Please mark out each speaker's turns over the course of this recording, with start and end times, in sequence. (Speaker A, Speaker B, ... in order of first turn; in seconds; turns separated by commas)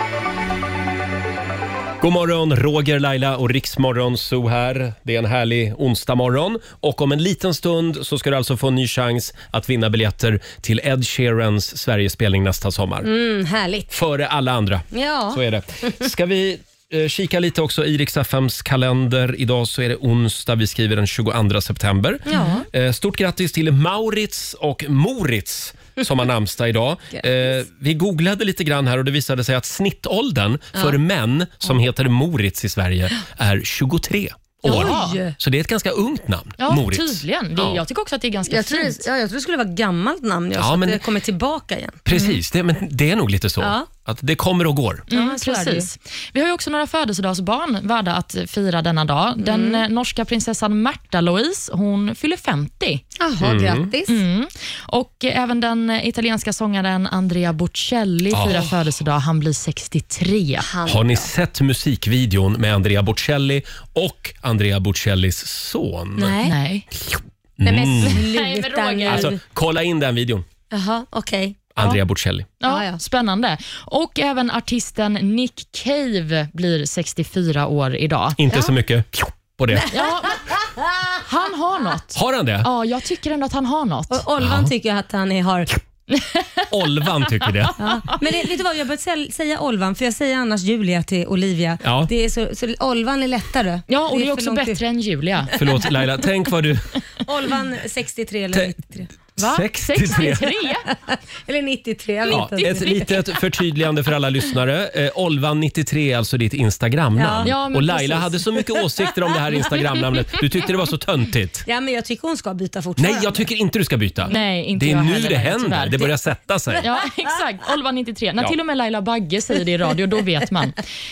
Speaker A: 2.0-13.1, Speaker B: 13.0-13.9, Speaker A: 13.9-37.8, Speaker B: 14.9-15.4, Speaker B: 22.3-22.7, Speaker B: 34.6-35.3, Speaker C: 34.6-35.2, Speaker C: 36.6-39.0, Speaker B: 38.5-42.0, Speaker A: 40.5-41.0, Speaker A: 42.0-45.1, Speaker B: 43.6-43.9, Speaker C: 45.1-53.0, Speaker B: 45.1-45.9, Speaker B: 49.4-49.8, Speaker B: 53.2-54.2, Speaker A: 53.4-53.9, Speaker C: 54.1-60.7, Speaker A: 58.3-58.7, Speaker B: 60.6-61.3, Speaker A: 60.9-66.4, Speaker B: 66.2-66.5, Speaker C: 66.4-66.9, Speaker A: 67.6-68.2, Speaker B: 67.6-69.4, Speaker C: 68.0-69.3, Speaker A: 69.0-70.5, Speaker B: 70.7-71.7, Speaker A: 71.7-72.5, Speaker C: 72.6-78.7, Speaker B: 72.6-73.0, Speaker A: 78.4-79.9, Speaker C: 79.9-80.4, Speaker B: 80.5-81.0, Speaker C: 81.2-84.2, Speaker A: 82.1-82.7, Speaker B: 84.1-85.8, Speaker A: 84.4-84.7, Speaker C: 86.1-86.6, Speaker A: 86.7-87.8, Speaker C: 87.4-88.1, Speaker B: 87.8-94.8, Speaker A: 91.8-92.1, Speaker C: 93.9-95.5, Speaker A: 95.5-96.9, Speaker B: 97.2-99.1, Speaker A: 99.3-100.5, Speaker C: 99.4-100.8, Speaker B: 100.9-103.0, Speaker C: 102.2-103.2, Speaker A: 102.3-111.7, Speaker B: 107.2-107.5, Speaker C: 107.4-108.4, Speaker B: 111.7-113.4, Speaker A: 113.0-116.9, Speaker C: 114.3-116.1, Speaker C: 116.8-120.8